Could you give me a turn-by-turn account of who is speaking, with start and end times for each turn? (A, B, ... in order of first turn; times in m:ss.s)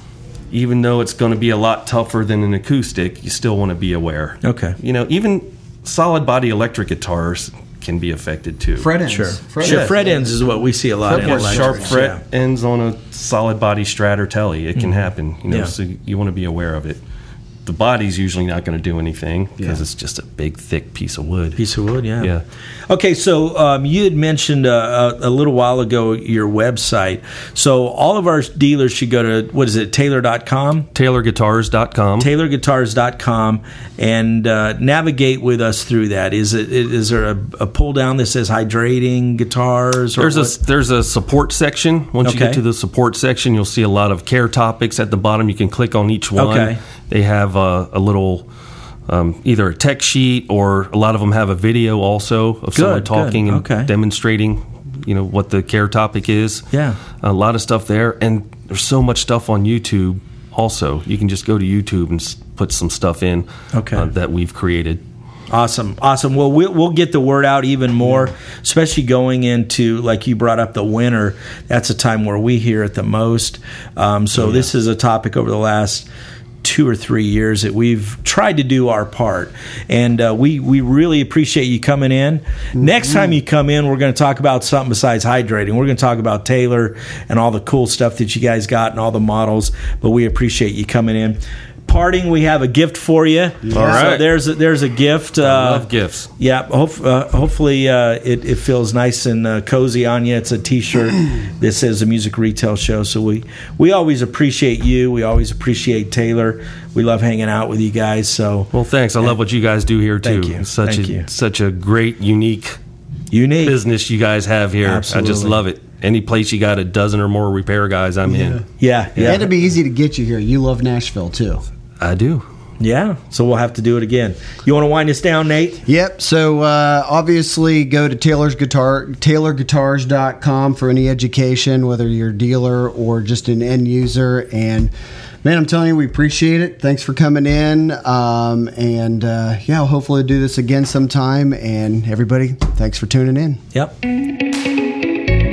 0:00.5-0:08.9 A
0:04.4-0:04.8 B
0:08.8-0:10.6 C
0:09.1-0:12.2 B
0:09.6-0:10.0 A
0:11.1-0:17.0 A
0:11.1-0:12.0 C
0:15.5-0:15.7 B
0:17.6-0:21.6 A
0:21.6-0:22.3 B
0:22.9-0:30.9 B
0:31.0-0:32.3 A
0:32.2-0:40.6 B
0:40.2-0:48.5 A
0:42.2-0:42.6 B
0:46.4-0:46.8 B
0:49.1-0:56.7 A
0:52.8-0:53.9 B
0:56.7-0:57.0 B
0:57.2-1:05.0 A
1:03.7-1:04.1 B
1:05.5-1:16.1 B
1:14.4-1:14.7 A
1:16.6-1:35.9 B
1:33.6-1:34.1 C
1:33.7-1:34.4 A
1:35.4-1:36.3 A
1:36.4-1:48.7 B
1:48.7-1:52.8 A
1:50.2-1:51.3 B
1:53.3-1:53.8 B
1:53.6-1:58.6 A
1:54.8-1:55.6 B
1:58.3-1:58.6 C
1:58.8-1:59.5 B
1:59.2-1:59.4 A
1:59.2-2:01.6 C
2:02.0-2:02.5 A
2:02.8-2:05.8 B
2:05.9-2:23.6 C